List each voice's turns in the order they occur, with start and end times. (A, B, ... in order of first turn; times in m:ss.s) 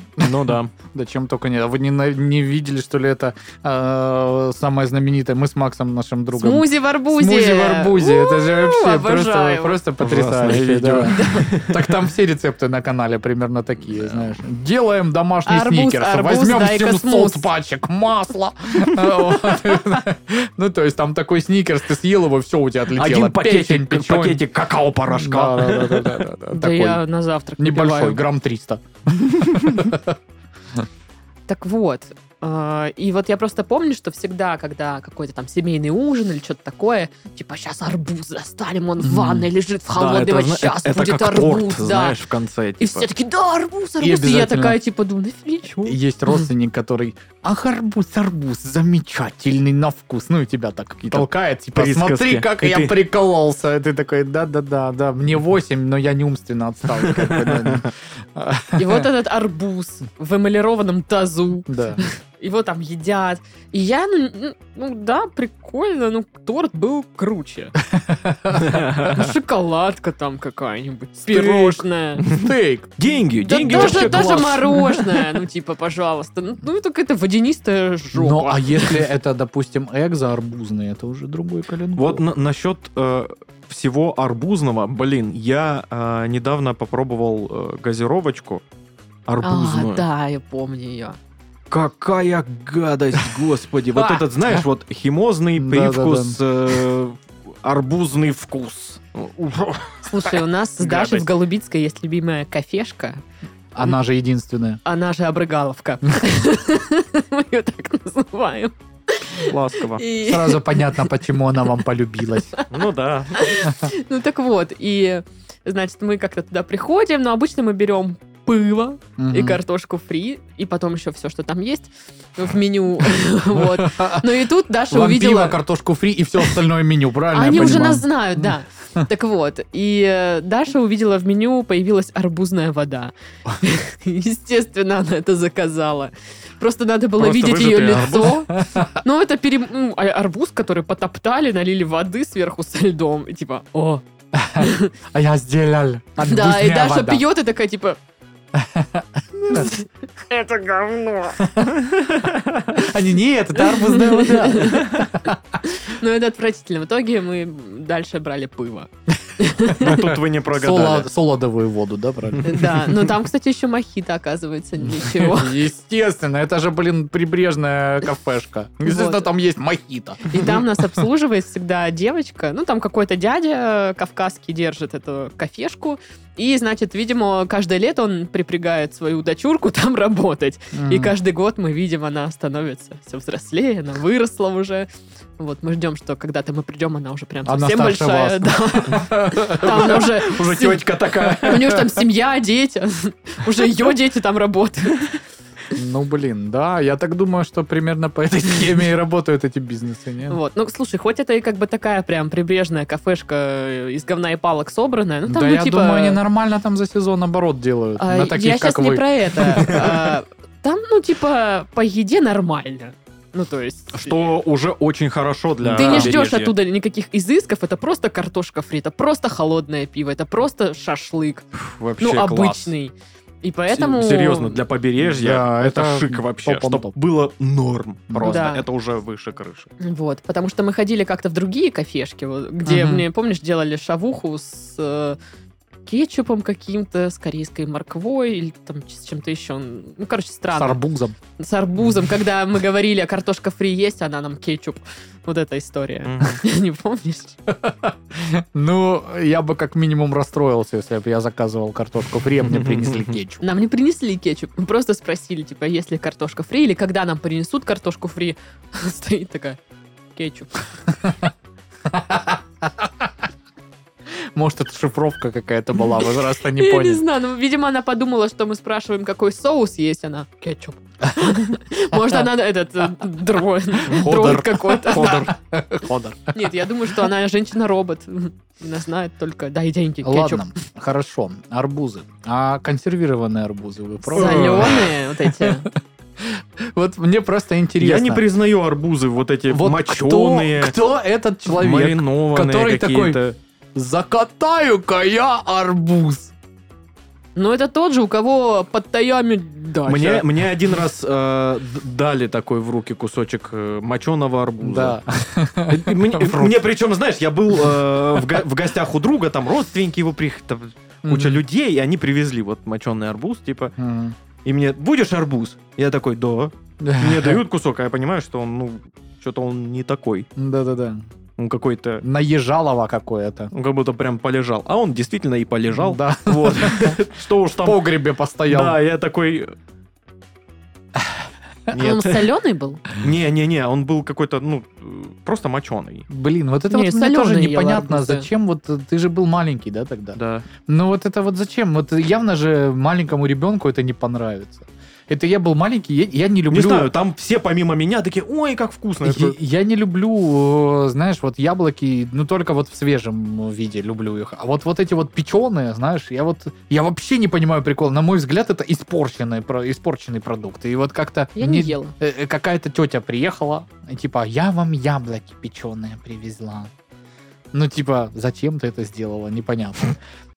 0:00.2-0:24.4 A
0:00.2-0:00.7 B
0:06.3-0:09.8 C
0:10.0-0:12.1 B
0:11.0-0:11.5 C
0:14.0-0:14.4 B
0:15.4-0:17.4 C
0:19.0-0:19.4 B
0:23.0-0:26.2 B
0:25.1-0:27.0 A
0:26.5-0:28.2 C
0:27.6-0:30.2 A
0:29.4-0:29.8 B
0:31.5-0:42.2 C
0:39.0-0:39.5 A
0:39.9-0:43.1 B
0:42.8-0:46.0 C
0:44.0-0:44.8 A
0:45.8-0:59.1 A
0:51.0-0:53.0 B
0:57.0-0:57.9 B
0:58.8-1:07.7 C
1:01.7-1:02.0 A
1:07.9-1:08.8 A
1:08.6-1:09.3 B
1:09.1-1:12.2 C
1:11.3-1:12.9 A
1:12.2-1:15.0 B
1:13.4-1:19.0 C
1:13.6-1:14.8 A
1:18.1-1:22.2 A
1:22.0-1:28.6 B
1:29.3-1:30.0 B
1:29.4-1:31.2 C
1:31.7-1:40.3 B
1:33.9-1:34.2 C
1:35.6-1:36.4 A
1:40.0-1:43.2 C
1:40.8-1:41.2 A
1:43.7-1:44.8 A
1:44.8-1:51.1 C
1:49.4-1:50.0 B
1:50.2-1:52.6 A
1:52.7-1:53.5 B
1:53.3-2:05.6 C
1:59.2-1:59.6 A
2:03.5-2:08.5 A
2:07.3-2:24.0 C
2:17.2-2:18.5 B
2:18.5-2:18.9 A
2:24.3-2:27.2 A
2:24.6-2:24.9 C
2:26.2-2:28.0 C
2:28.5-2:29.7 A
2:29.5-2:31.4 C
2:31.4-2:31.8 A
2:31.8-2:32.9 B
2:32.8-2:35.4 A
2:33.6-2:35.1 C
2:35.6-2:40.1 C
2:39.7-2:41.1 B
2:39.8-2:42.9 A
2:42.3-2:42.8 B
2:42.4-2:45.6 C
2:44.9-2:51.0 A
2:48.8-2:49.3 C
2:50.3-3:15.1 C
3:00.7-3:01.1 A
3:07.4-3:10.1 A
3:09.5-3:11.9 B
3:11.2-3:11.7 A
3:15.7-3:20.4 A
3:20.3-3:26.2 C
3:25.3-3:30.2 A
3:28.0-3:34.2 C
3:33.9-3:36.5 B
3:35.6-3:36.2 A
3:35.8-3:41.5 C
3:41.6-3:42.7 B
3:42.0-3:44.6 C
3:43.7-3:49.7 B
3:45.0-3:46.9 A
3:48.1-3:48.4 A
3:48.2-3:48.6 C
3:49.8-3:55.2 C
3:52.6-3:53.0 A
3:55.8-4:00.8 C
4:00.5-4:01.2 A
4:01.4-4:07.4 C
4:06.0-4:06.4 B
4:07.5-4:13.4 A
4:12.4-4:13.2 B
4:13.4-4:19.6 C
4:20.1-4:20.6 C
4:21.9-4:23.1 A
4:24.3-4:27.0 A
4:26.5-4:35.3 C
4:31.9-4:32.2 A
4:33.8-4:36.5 A
4:33.9-4:35.3 B
4:36.3-4:40.5 C
4:40.0-4:48.2 A
4:44.0-4:45.7 C
4:44.1-4:44.9 B
4:47.8-4:50.8 B
4:49.5-4:53.2 A
4:51.5-4:53.4 B
4:53.7-4:56.3 A
4:57.4-5:00.3 C
4:59.8-5:05.0 B
5:04.6-5:06.6 A
5:05.7-5:13.7 B
5:07.6-5:08.4 A
5:11.0-5:11.4 A
5:13.8-5:14.2 A
5:14.4-5:20.3 B
5:16.8-5:17.4 A
5:20.4-5:21.0 A
5:21.4-5:22.0 B
5:22.0-5:23.5 A
5:23.5-5:27.8 B
5:25.7-5:27.0 A
5:27.6-5:28.8 A
5:28.4-5:29.5 B
5:31.7-5:32.3 B
5:31.7-5:32.8 C
5:32.9-5:36.0 B
5:36.1-5:46.9 A
5:36.7-5:38.3 C
5:40.1-5:40.4 B
5:46.5-5:49.4 B
5:49.0-6:06.7 A
6:01.4-6:01.9 C
6:07.5-6:10.0 A